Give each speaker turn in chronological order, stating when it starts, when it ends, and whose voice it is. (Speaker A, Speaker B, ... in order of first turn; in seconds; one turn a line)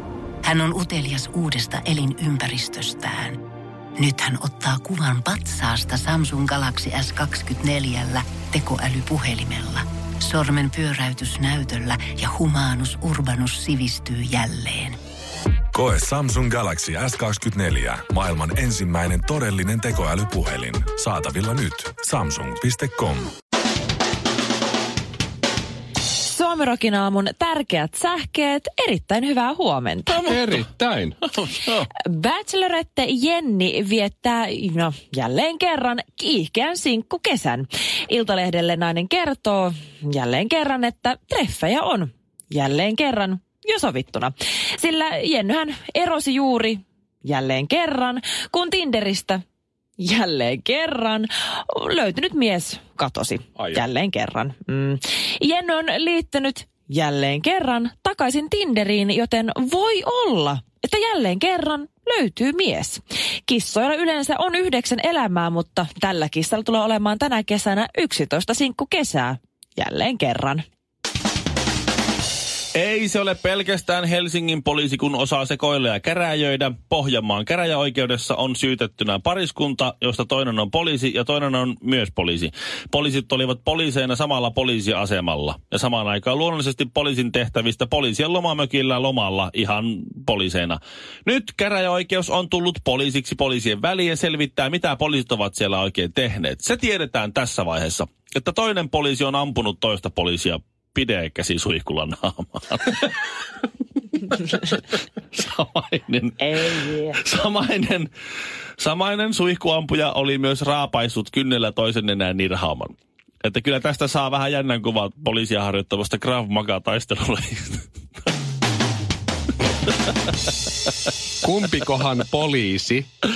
Speaker A: 0.4-3.4
Speaker A: 4.0-15.0
Speaker B: 15.7-23.3
Speaker C: 26.2-30.2
Speaker D: 30.1-31.2
Speaker E: 30.1-30.6
Speaker E: 31.3-31.9
Speaker C: 31.9-49.4
Speaker C: 50.0-70.6
Speaker D: 53.6-53.8
Speaker E: 72.7-103.2
Speaker E: 104.3-108.1
Speaker C: 106.4-107.2
Speaker E: 108.8-117.8
Speaker D: 121.4-123.1